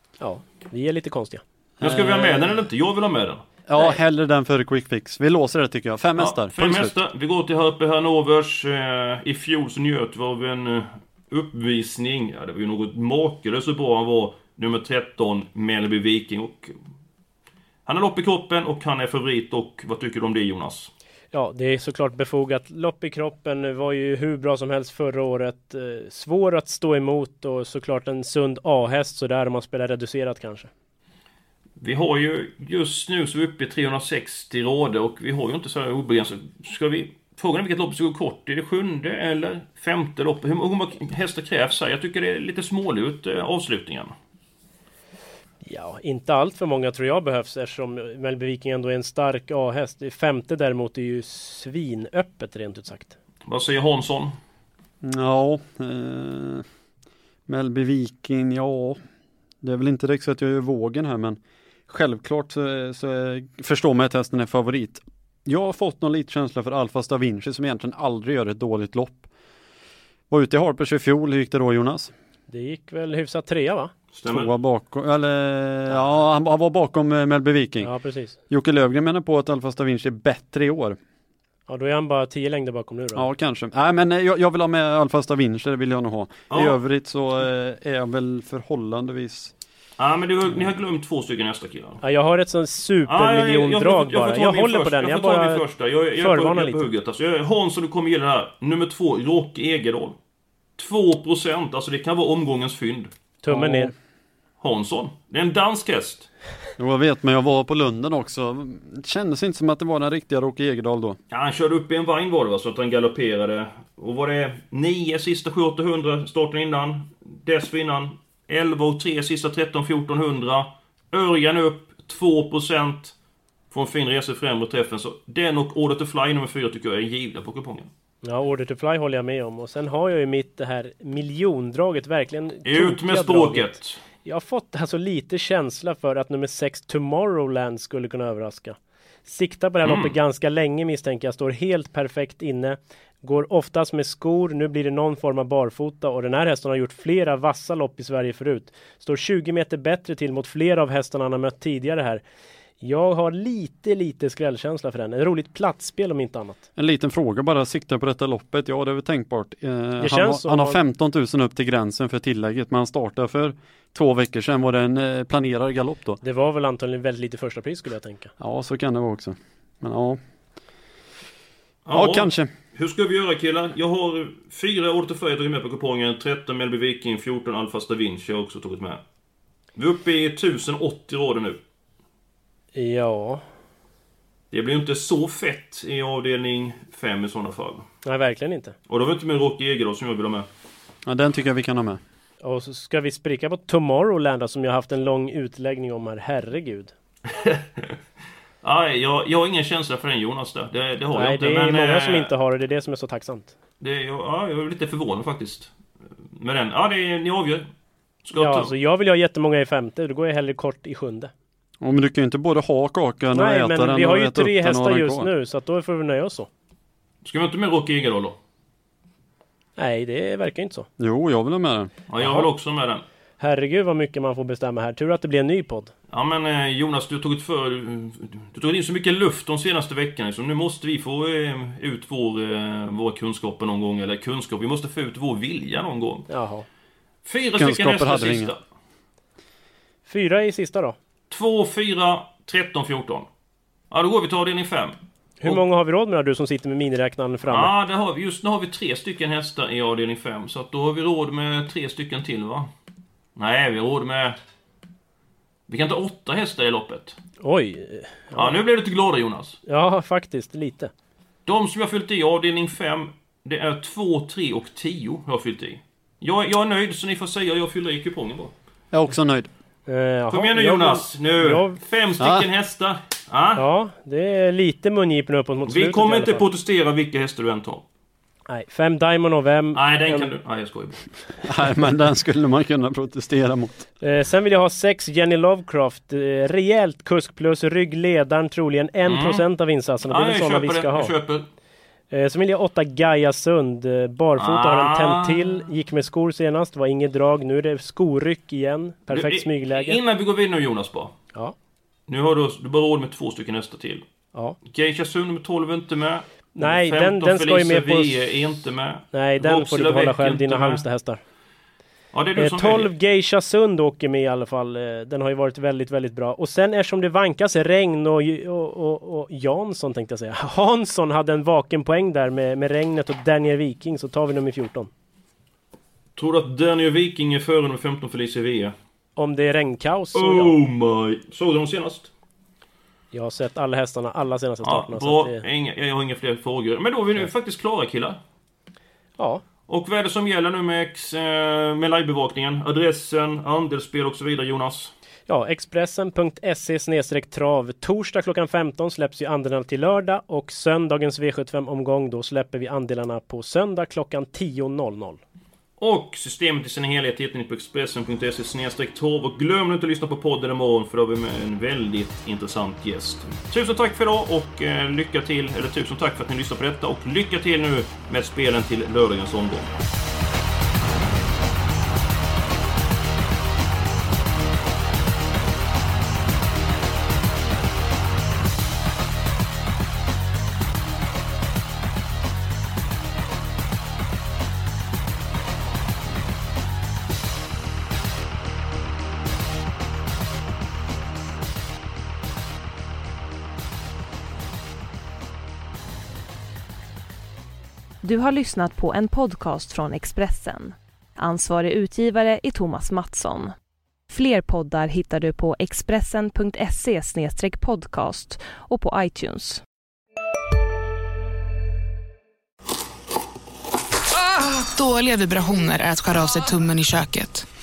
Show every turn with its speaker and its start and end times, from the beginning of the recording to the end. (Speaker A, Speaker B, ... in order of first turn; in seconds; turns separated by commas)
Speaker A: 0.2-1.4, Speaker B: 1.8-2.6, Speaker C: 1.8-3.4, Speaker B: 3.7-7.0, Speaker C: 6.2-16.8, Speaker C: 17.9-20.9, Speaker A: 21.3-30.7, Speaker C: 31.8-44.1, Speaker A: 45.6-53.1, Speaker C: 53.5-54.4, Speaker B: 55.0-56.6, Speaker B: 57.5-59.0, Speaker B: 59.6-69.3, Speaker B: 70.3-72.1, Speaker A: 72.5-73.9, Speaker C: 74.1-74.5, Speaker B: 74.3-77.9, Speaker A: 77.8-78.4, Speaker B: 78.5-81.0, Speaker A: 81.7-83.3, Speaker B: 83.2-89.5, Speaker C: 86.5-86.8, Speaker C: 90.0-92.0, Speaker A: 92.0-95.6, Speaker C: 93.1-100.2, Speaker A: 96.2-96.9, Speaker C: 100.8-103.1, Speaker A: 103.4-103.9, Speaker B: 103.5-103.9, Speaker C: 104.6-106.3, Speaker B: 106.8-111.2, Speaker C: 111.3-123.2, Speaker C: 123.7-127.9, Speaker A: 128.2-152.2, Speaker C: 132.7-134.0, Speaker C: 139.8-140.1, Speaker A: 152.8-156.6, Speaker B: 156.8-166.2, Speaker A: 160.0-160.8, Speaker A: 166.2-168.3, Speaker B: 168.4-170.2, Speaker C: 171.9-179.0, Speaker B: 171.9-172.5, Speaker C: 179.8-181.6, Speaker A: 182.8-183.4, Speaker C: 184.5-187.9, Speaker A: 188.1-188.8, Speaker C: 188.9-190.5, Speaker B: 191.1-192.0, Speaker A: 192.4-196.9, Speaker C: 197.3-197.9, Speaker C: 198.6-202.3, Speaker A: 201.1-203.5, Speaker C: 203.8-205.7, Speaker C: 206.3-207.7, Speaker C: 208.2-208.7, Speaker A: 208.4-211.3, Speaker B: 211.8-215.3, Speaker A: 213.3-216.5, Speaker C: 217.2-218.4, Speaker A: 219.8-220.9, Speaker B: 221.0-221.9, Speaker C: 222.1-223.0, Speaker A: 222.2-222.5, Speaker A: 223.4-225.9, Speaker C: 226.1-236.3, Speaker A: 236.3-236.7, Speaker C: 237.2-238.6, Speaker B: 237.6-238.5, Speaker A: 240.1-241.0, Speaker C: 241.3-243.3, Speaker C: 243.9-245.6, Speaker A: 245.4-247.7, Speaker C: 247.5-252.7, Speaker C: 253.4-254.4, Speaker C: 255.7-257.2, Speaker A: 257.4-258.5, Speaker C: 258.4-259.6, Speaker A: 259.7-260.9, Speaker C: 261.5-268.5, Speaker B: 268.9-269.5, Speaker A: 269.9-271.8, Speaker C: 270.3-273.6, Speaker B: 272.2-272.5, Speaker A: 273.6-276.4, Speaker C: 275.7-277.8, Speaker A: 278.5-280.3, Speaker C: 279.8-281.1, Speaker B: 281.4-283.9, Speaker A: 284.0-291.1, Speaker C: 289.1-289.4, Speaker C: 290.1-291.5, Speaker A: 292.1-300.0, Speaker C: 294.4-295.6, Speaker C: 299.1-301.1, Speaker C: 302.1-304.0, Speaker C: 304.7-310.8, Speaker A: 306.6-308.2, Speaker A: 309.1-311.2, Speaker C: 312.1-312.9, Speaker A: 312.4-324.9, Speaker C: 326.2-328.8, Speaker A: 329.2-330.5, Speaker C: 330.1-332.1, Speaker A: 333.1-335.4, Speaker C: 334.6-338.2, Speaker C: 339.7-344.9, Speaker A: 345.3-355.2, Speaker C: 355.8-369.7, Speaker D: 398.0-403.5, Speaker D: 404.1-409.6, Speaker E: 414.1-417.5